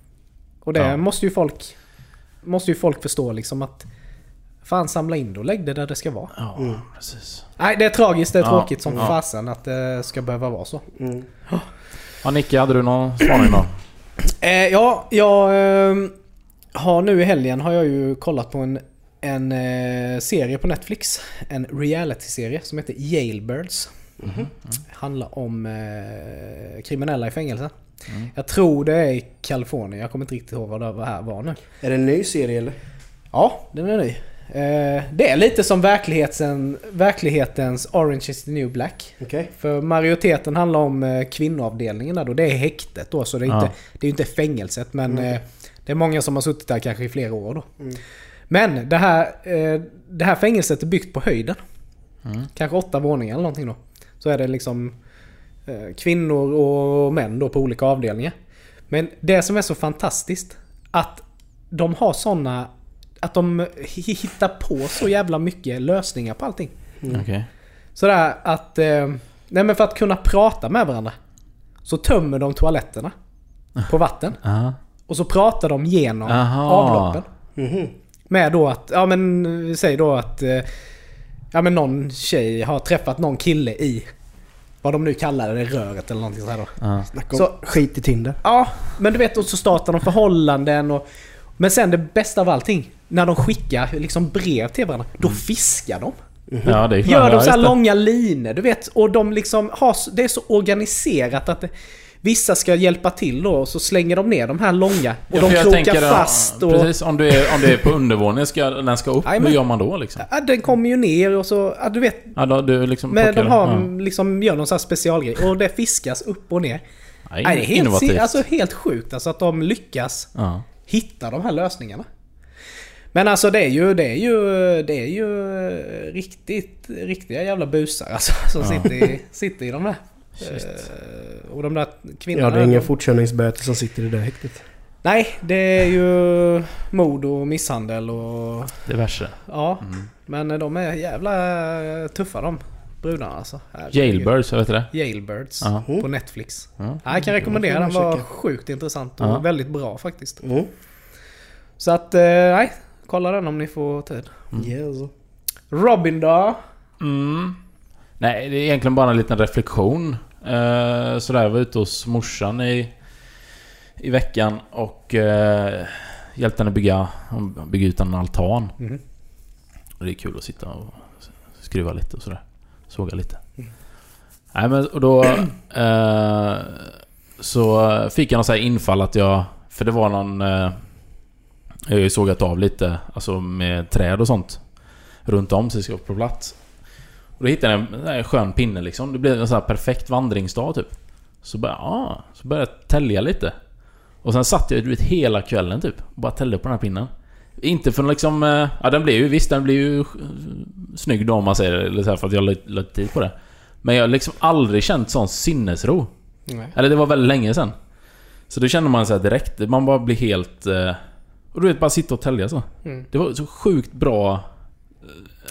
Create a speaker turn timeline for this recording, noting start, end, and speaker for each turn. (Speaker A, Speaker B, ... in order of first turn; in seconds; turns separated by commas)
Speaker A: 0.6-1.7, Speaker A: 2.4-3.9, Speaker A: 4.6-6.3, Speaker B: 6.3-7.4, Speaker A: 7.6-10.8, Speaker B: 8.4-9.2, Speaker C: 11.0-11.3, Speaker B: 12.2-13.7, Speaker A: 14.2-16.1, Speaker A: 16.7-23.9, Speaker C: 24.2-24.5, Speaker B: 24.2-24.7, Speaker A: 24.9-27.7, Speaker A: 28.3-31.6, Speaker C: 31.8-32.8, Speaker A: 33.3-47.7, Speaker C: 39.2-39.5, Speaker B: 43.5-43.7, Speaker A: 48.5-51.6, Speaker A: 52.5-54.9, Speaker A: 55.6-58.3, Speaker A: 58.9-62.7, Speaker A: 63.2-66.7, Speaker B: 67.1-67.5, Speaker A: 68.0-71.2, Speaker A: 71.8-73.1, Speaker A: 73.9-74.4, Speaker B: 74.4-74.8, Speaker A: 75.1-77.2, Speaker B: 76.2-77.2, Speaker C: 77.5-77.9, Speaker A: 78.3-80.7, Speaker A: 81.5-84.1, Speaker A: 84.8-86.8, Speaker B: 86.8-87.1, Speaker C: 87.1-88.4, Speaker A: 88.4-91.0, Speaker A: 91.6-96.2, Speaker C: 96.5-96.8, Speaker B: 96.6-97.7, Speaker A: 97.0-101.7, Speaker A: 102.2-107.8, Speaker B: 105.3-110.2, Speaker A: 109.2-109.6, Speaker A: 110.2-112.3, Speaker B: 112.3-113.9, Speaker A: 113.1-116.8, Speaker B: 117.3-118.4, Speaker A: 117.4-120.3, Speaker B: 120.3-120.6, Speaker A: 120.8-122.0, Speaker A: 123.1-132.9, Speaker B: 128.6-128.9, Speaker C: 132.3-134.6, Speaker A: 135.0-138.8, Speaker B: 138.8-140.1, Speaker A: 139.5-144.3, Speaker B: 143.9-144.9, Speaker A: 144.9-150.4, Speaker B: 145.6-145.8, Speaker C: 147.2-148.3, Speaker C: 150.4-150.7, Speaker A: 151.8-154.4, Speaker C: 154.5-155.1, Speaker A: 155.7-156.6, Speaker B: 157.0-157.6, Speaker B: 158.2-162.9, Speaker B: 164.0-168.7, Speaker B: 170.0-173.4, Speaker B: 174.5-180.8, Speaker B: 181.9-184.6, Speaker B: 185.2-186.6, Speaker B: 187.4-193.5, Speaker B: 194.2-206.1, Speaker A: 206.5-206.7, Speaker B: 206.7-207.7, Speaker B: 208.5-211.0, Speaker B: 211.5-214.4